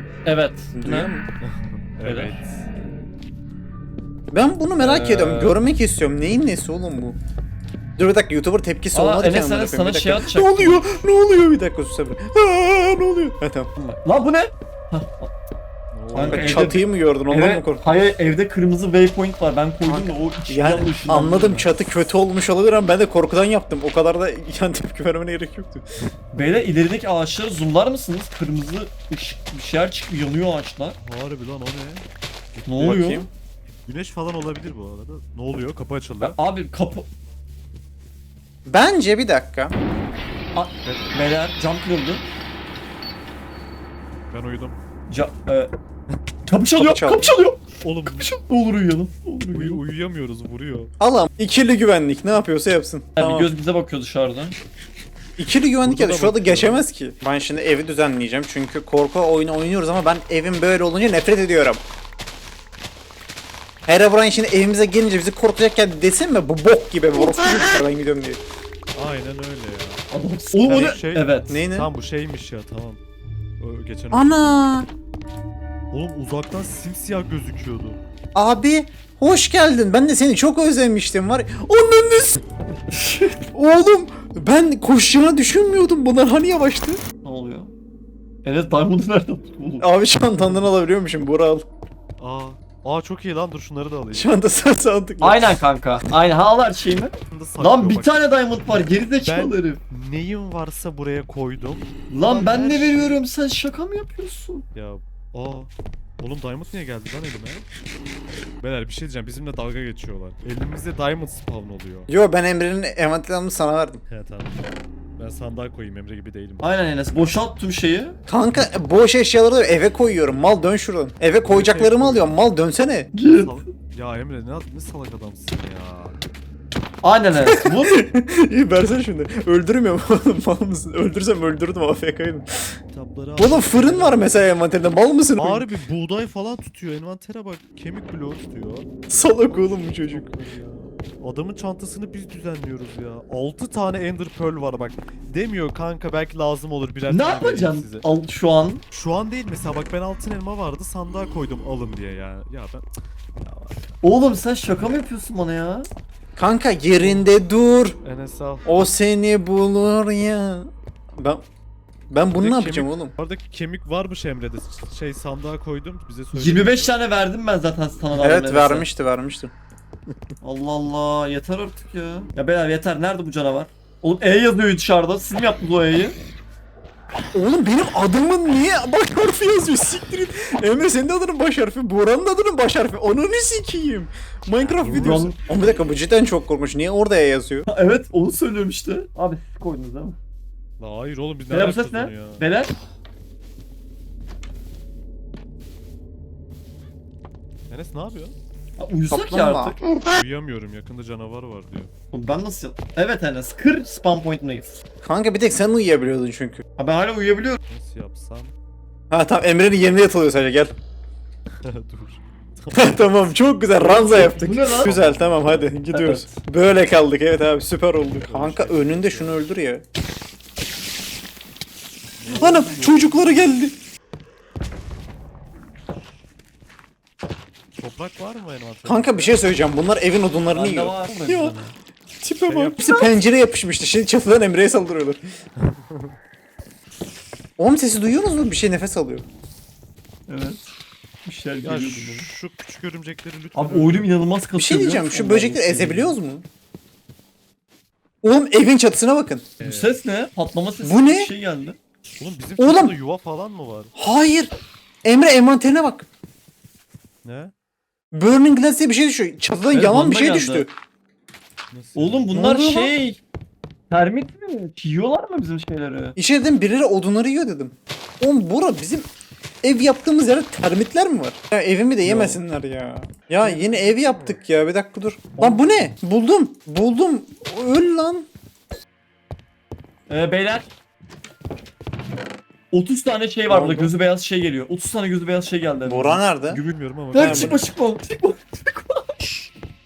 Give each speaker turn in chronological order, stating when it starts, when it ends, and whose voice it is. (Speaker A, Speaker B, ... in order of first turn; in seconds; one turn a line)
Speaker A: 0.2-1.1
Speaker B: 0.8-1.3
Speaker C: 1.4-2.7
Speaker A: 2.0-2.4
Speaker B: 4.3-7.2
Speaker A: 4.8-5.6
Speaker B: 8.0-13.7
Speaker A: 8.9-11.0
Speaker A: 13.8-15.3
Speaker C: 15.9-16.8
Speaker B: 16.1-17.9
Speaker A: 16.1-21.7
Speaker B: 19.9-25.8
Speaker A: 26.3-31.0
Speaker C: 31.0-33.2
Speaker A: 32.7-33.3
Speaker B: 32.8-33.3
Speaker C: 33.9-36.4
Speaker A: 36.2-37.1
Speaker B: 38.7-39.8
Speaker A: 40.5-42.2
Speaker C: 40.8-41.2
Speaker C: 44.3-44.8
Speaker A: 45.1-45.7
Speaker A: 46.5-49.8
Speaker B: 46.8-47.4
Speaker C: 47.8-48.3
Speaker C: 49.5-50.9
Speaker B: 51.0-53.5
Speaker A: 53.2-54.6
Speaker B: 55.4-61.8
Speaker C: 55.8-56.9
Speaker B: 63.9-68.4
Speaker C: 69.0-73.0
Speaker A: 70.1-71.5
Speaker B: 70.7-71.0
Speaker B: 71.5-71.9
Speaker C: 73.6-74.7
Speaker B: 74.1-74.9
Speaker C: 75.9-78.0
Speaker B: 78.3-82.4
Speaker A: 82.9-83.4
Speaker B: 83.5-87.0
Speaker A: 87.2-87.7
Speaker A: 88.4-89.9
Speaker B: 89.8-91.7
Speaker C: 92.2-94.3
Speaker B: 94.1-95.6
Speaker A: 95.2-99.8
Speaker C: 97.3-98.2
Speaker C: 99.2-103.2
Speaker A: 102.1-104.6
Speaker C: 104.8-107.7
Speaker C: 108.6-112.1
Speaker B: 112.1-114.0
Speaker C: 114.1-114.7
Speaker C: 115.2-116.7
Speaker A: 116.6-118.2
Speaker B: 118.3-123.1
Speaker C: 121.4-122.5
Speaker A: 123.1-123.6
Speaker C: 123.3-126.2
Speaker A: 127.0-128.0
Speaker B: 127.4-132.6
Speaker C: 132.9-134.3
Speaker B: 133.4-135.7
Speaker C: 135.4-138.9
Speaker B: 139.1-140.3
Speaker C: 139.5-148.1
Speaker A: 147.1-148.8
Speaker C: 148.9-152.9
Speaker C: 153.4-153.8
Speaker A: 154.0-155.9
Speaker B: 156.4-158.0
Speaker C: 157.0-157.3
Speaker C: 158.0-158.7
Speaker B: 158.7-161.4
Speaker B: 162.1-163.2
Speaker C: 162.3-167.0
Speaker A: 166.3-168.9
Speaker B: 168.2-169.5
Speaker A: 170.4-176.2
Speaker B: 177.3-187.7
Speaker C: 184.6-185.3
Speaker A: 184.9-185.4
Speaker A: 187.7-190.2
Speaker C: 190.8-192.5
Speaker A: 191.5-192.7
Speaker C: 197.7-198.4
Speaker A: 198.8-199.8
Speaker B: 199.1-199.8
Speaker C: 200.1-201.9
Speaker A: 202.1-204.8
Speaker B: 205.0-206.6
Speaker A: 206.8-207.6
Speaker C: 207.7-208.5
Speaker B: 209.1-210.7
Speaker C: 211.6-213.1
Speaker B: 212.8-219.8
Speaker A: 213.8-215.0
Speaker C: 214.2-215.9
Speaker A: 215.9-216.4
Speaker C: 218.2-219.5
Speaker C: 222.2-223.5
Speaker A: 222.3-223.1
Speaker B: 222.3-223.7
Speaker C: 227.8-229.4
Speaker B: 228.8-231.6
Speaker A: 230.5-231.8
Speaker B: 232.2-235.2
Speaker C: 232.5-233.1
Speaker C: 235.6-236.2
Speaker B: 237.6-239.2
Speaker A: 240.3-240.6
Speaker A: 241.2-242.3
Speaker C: 241.6-244.2
Speaker A: 243.6-246.2
Speaker B: 244.6-246.4
Speaker B: 248.2-249.5
Speaker C: 249.6-250.0
Speaker A: 249.6-251.8
Speaker B: 250.8-251.3
Speaker C: 252.2-253.9
Speaker B: 252.6-253.0
Speaker B: 254.0-254.5
Speaker B: 255.0-256.1
Speaker C: 257.2-257.5
Speaker B: 258.1-260.7
Speaker A: 259.7-260.7
Speaker C: 261.7-262.4
Speaker A: 261.9-263.2
Speaker B: 262.3-262.9
Speaker A: 263.9-266.2
Speaker B: 266.2-269.1
Speaker B: 269.6-278.3
Speaker A: 272.0-272.4
Speaker C: 273.4-274.6
Speaker A: 275.4-275.9
Speaker A: 280.1-280.7
Speaker A: 282.7-289.3
Speaker B: 283.5-283.9
Speaker B: 285.9-286.6
Speaker C: 286.6-287.6
Speaker B: 287.2-287.6